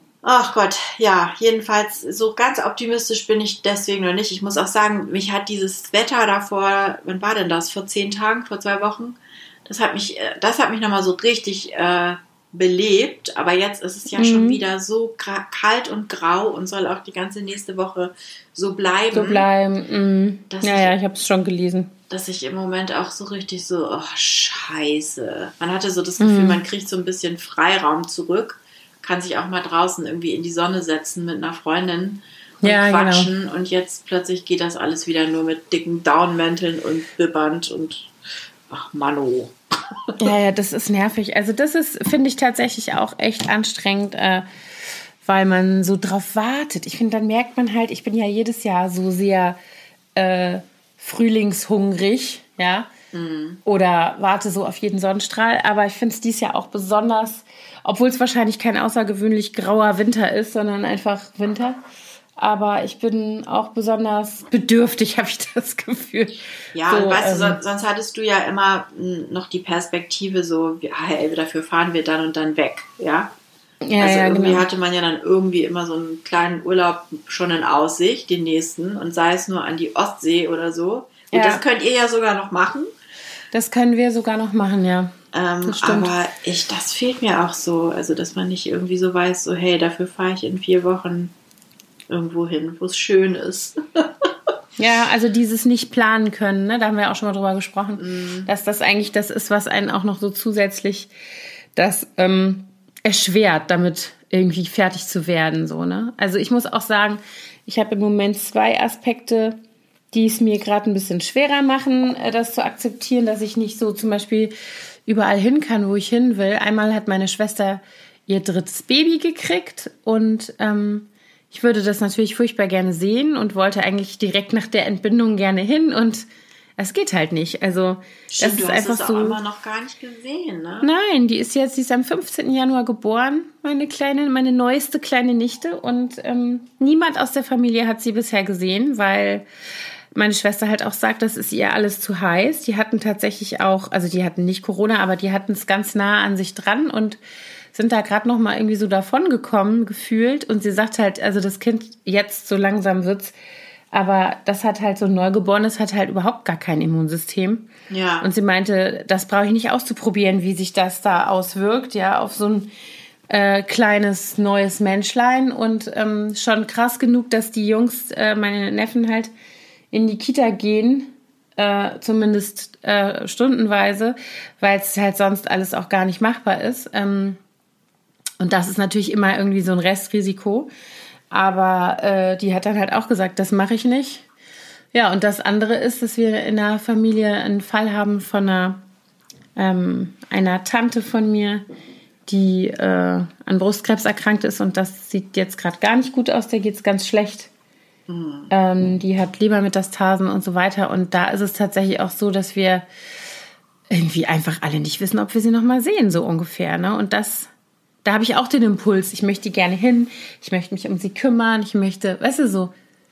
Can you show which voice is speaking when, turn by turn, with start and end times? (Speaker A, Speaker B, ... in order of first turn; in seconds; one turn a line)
Speaker A: 0.2-19.4
Speaker B: 14.1-14.6
Speaker B: 19.1-21.9
Speaker A: 20.5-20.9
Speaker A: 22.1-38.1
Speaker B: 26.2-26.6
Speaker B: 32.6-33.3
Speaker A: 38.7-39.5
Speaker B: 40.2-44.5
Speaker B: 45.2-49.6
Speaker B: 50.1-52.9
Speaker A: 53.1-53.6
Speaker B: 53.6-61.8
Speaker B: 62.4-67.6
Speaker A: 66.7-73.3
Speaker B: 73.8-74.7
Speaker A: 74.0-82.9
Speaker B: 81.3-81.6
Speaker B: 83.5-85.1
Speaker A: 85.3-91.3
Speaker B: 85.6-86.1
Speaker A: 92.1-94.3
Speaker B: 94.8-101.1
Speaker A: 98.0-98.5
Speaker B: 101.8-109.6
Speaker B: 110.1-114.5
Speaker B: 115.0-129.4
Speaker A: 128.3-130.9
Speaker B: 130.8-139.4
Speaker B: 140.1-147.2
Speaker B: 147.7-153.3
Speaker B: 153.9-157.7
Speaker A: 157.9-158.3
Speaker B: 158.2-162.7
Speaker B: 163.3-169.3
Speaker B: 169.9-177.4
Speaker B: 178.4-180.7
Speaker B: 181.3-184.2
Speaker B: 184.9-188.8
Speaker B: 189.6-191.6
Speaker B: 192.3-197.5
Speaker A: 198.1-198.5
Speaker B: 198.5-202.8
Speaker B: 203.9-207.5
Speaker B: 208.0-212.7